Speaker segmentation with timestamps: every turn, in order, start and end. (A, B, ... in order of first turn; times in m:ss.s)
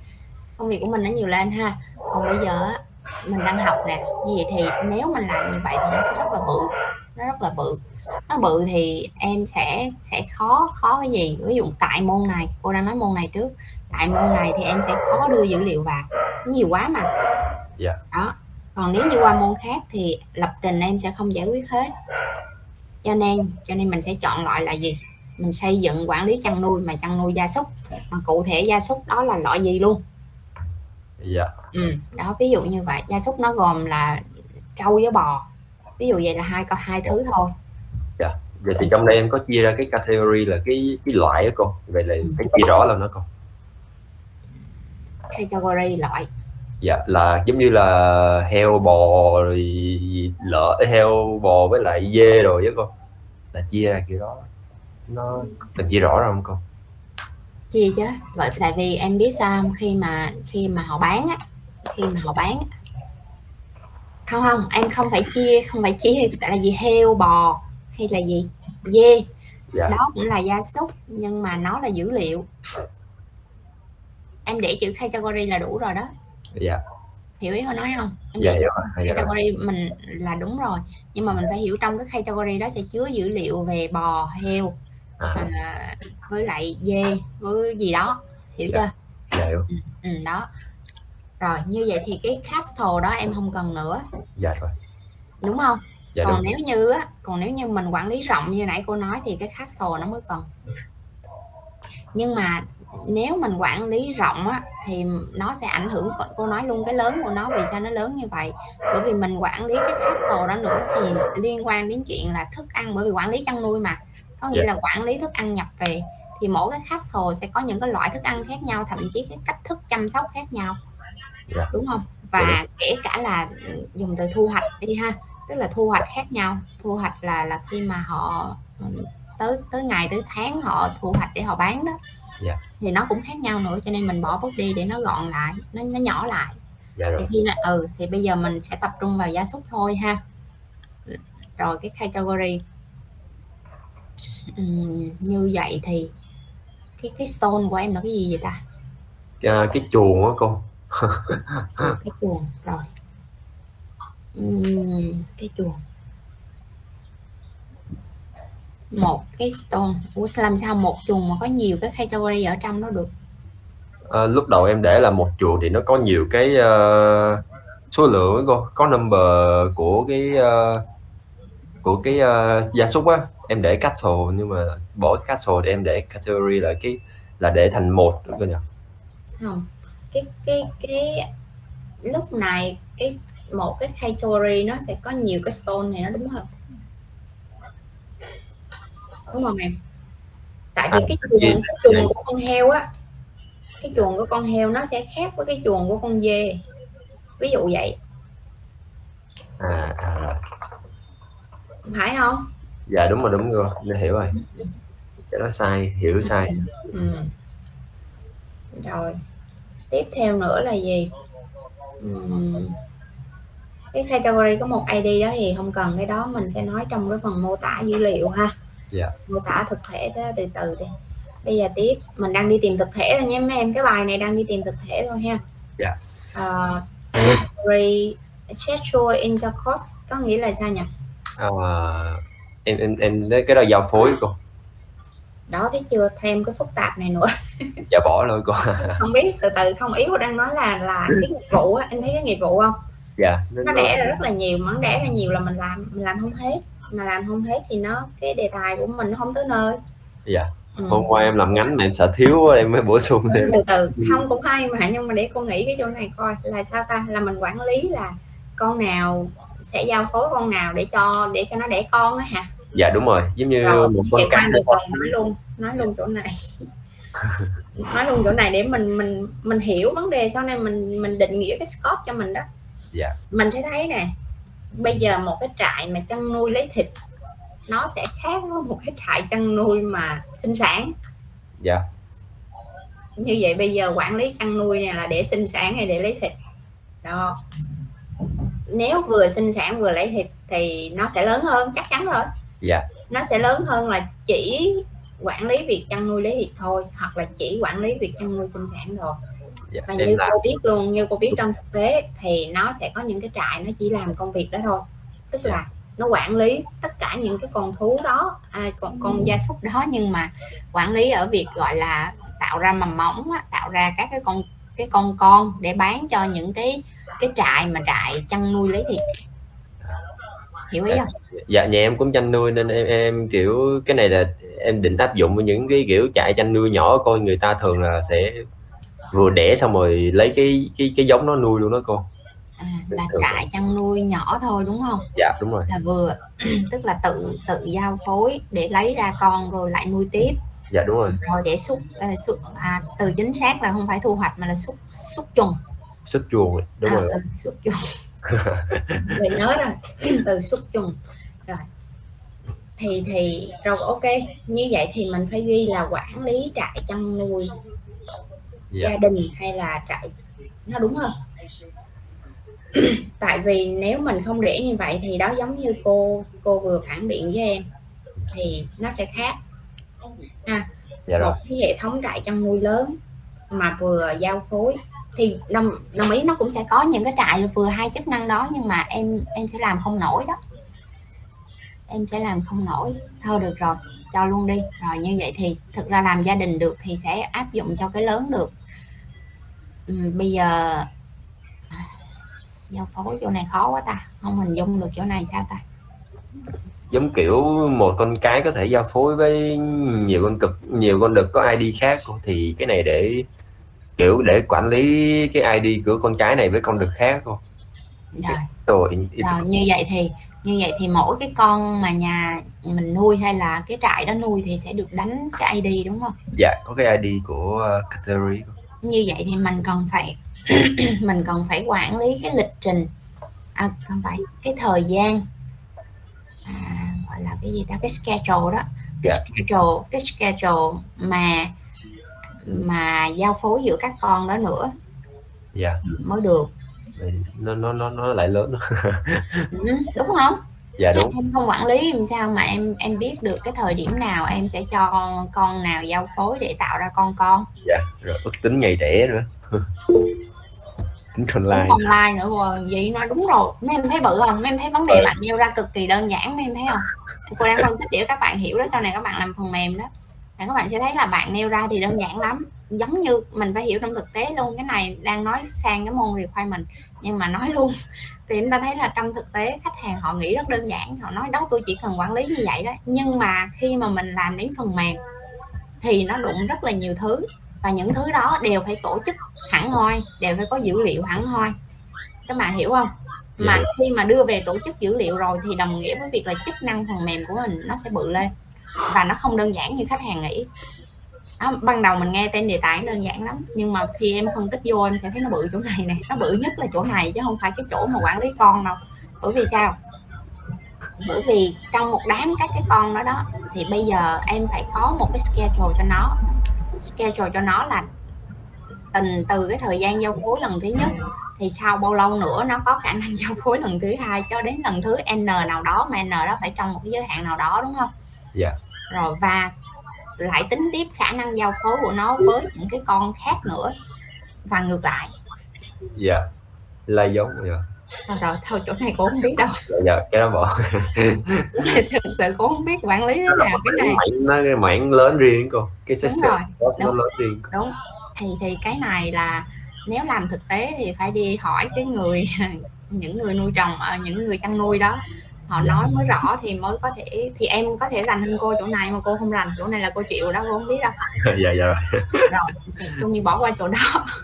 0:00.6-0:17.1 A
0:18.1-0:21.9 A
0:23.0-0:30.0 A
0:31.2-0:31.5 B
0:31.7-0:35.5 A
0:36.0-0:37.5 A
0:38.2-0:43.2 B
0:45.3-0:46.3 A
0:46.8-0:52.9 B
0:53.5-0:54.5 B
0:55.1-0:56.6 B
0:57.7-1:01.4 A
1:01.9-1:02.6 A
1:04.3-1:09.3 A
1:09.9-1:12.5 A
1:14.4-1:16.1 A
1:16.6-1:16.8 B
1:17.4-1:24.7 A
1:18.4-1:19.3 B
1:25.2-1:25.5 B
1:25.4-1:28.9 A
1:28.7-1:29.7 B
1:29.7-1:30.5 A
1:31.4-1:34.0 A
1:34.4-1:34.7 B
1:35.4-1:40.5 A
1:36.1-1:36.4 B
1:42.1-2:00.8 A
2:01.7-2:12.0 A
2:12.8-2:16.6 A
2:17.0-2:17.3 B
2:17.2-2:20.2 A
2:21.1-2:22.6 A
2:24.6-2:26.1 A
2:27.0-2:28.6 A
2:29.4-2:32.0 B
2:31.8-2:32.8 A
2:34.3-2:35.8 A
2:38.9-2:43.1 A
2:44.1-2:50.8 B
2:51.8-2:58.6 B
2:59.4-3:01.3 A
3:02.0-3:06.5 A
3:09.3-3:09.7 A
3:10.7-3:12.8 A
3:10.9-3:12.1 B
3:13.8-3:16.6 A
3:17.4-3:18.0 A
3:19.6-3:20.4 B
3:21.8-3:22.4 A
3:22.9-3:24.4 B
3:24.4-3:24.7 A
3:25.3-3:27.2 B
3:26.2-3:26.6 A
3:28.7-3:29.2 A
3:29.9-3:31.1 A
3:32.0-3:32.8 A
3:33.9-3:38.5 A
3:39.2-3:40.9 A
3:41.4-3:45.4 A
3:46.3-3:50.9 A
3:51.4-3:54.4 B
3:55.5-3:57.8 A
3:57.9-3:59.0 B
3:58.8-4:02.8 A
4:03.2-4:04.2 B
4:03.6-4:09.8 A
4:10.2-4:14.2 B
4:10.8-4:11.1 A
4:13.3-4:22.5 A
4:22.7-4:25.1 B
4:23.6-4:26.7 A
4:27.2-4:27.5 B
4:27.8-4:32.4 A
4:33.3-4:34.1 A
4:34.8-4:37.0 A
4:37.7-4:40.9 A
4:43.2-4:46.4 A
4:47.0-4:47.4 A
4:48.7-4:52.3 A
4:53.1-4:59.2 A
4:59.7-5:00.4 B
4:59.9-5:19.0 A
5:20.7-5:21.1 A
5:20.9-5:28.4 B
5:29.1-5:32.0 B
5:32.6-5:35.0 A
5:33.1-5:33.4 B
5:35.1-5:35.7 B
5:35.7-5:40.4 A
5:40.7-5:41.2 B
5:41.2-5:45.6 A
5:46.0-5:47.2 B
5:46.8-5:47.9 A
5:48.3-5:49.1 B
5:49.0-5:51.7 A
5:52.8-5:57.5 A
5:58.8-6:00.1 A
6:00.6-6:01.1 A
6:02.7-6:07.6 A
6:08.3-6:09.4 A
6:11.1-6:11.4 B
6:11.2-6:13.0 A
6:13.5-6:20.4 A
6:21.9-6:28.5 A
6:29.9-6:30.9 A
6:32.7-6:35.6 A
6:36.9-6:43.3 B
6:44.0-6:47.4 B
6:48.1-6:48.5 A
6:48.3-6:49.4 B
6:49.2-6:56.2 A
6:56.3-6:58.5 B
6:58.8-7:02.9 A
7:03.6-7:05.2 A
7:06.4-7:11.5 A
7:12.4-7:14.7 A
7:15.5-7:15.8 B
7:15.8-7:16.5 A
7:17.0-7:19.5 B
7:19.5-7:20.4 A
7:20.8-7:21.2 B
7:20.9-7:27.5 A
7:27.6-7:29.7 B
7:31.1-7:31.8 B
7:31.5-7:47.7 A
7:48.3-7:55.0 A
7:55.8-8:01.5 A
8:02.3-8:08.3 A
8:03.4-8:03.7 B
8:08.9-8:10.5 A
8:11.4-8:19.8 A
8:21.0-8:26.2 A
8:26.8-8:27.9 A
8:28.9-8:37.9 A
8:38.9-8:39.5 A
8:40.2-8:43.8 A
8:44.4-8:45.1 A
8:46.0-8:46.3 B
8:46.9-8:47.6 B
8:48.1-8:49.6 A
8:49.7-8:51.8 B
8:51.5-8:54.0 A
8:53.3-8:57.4 B
8:56.0-8:56.9 A
8:57.5-9:11.0 A
9:11.2-9:12.3 B
9:12.2-9:14.1 A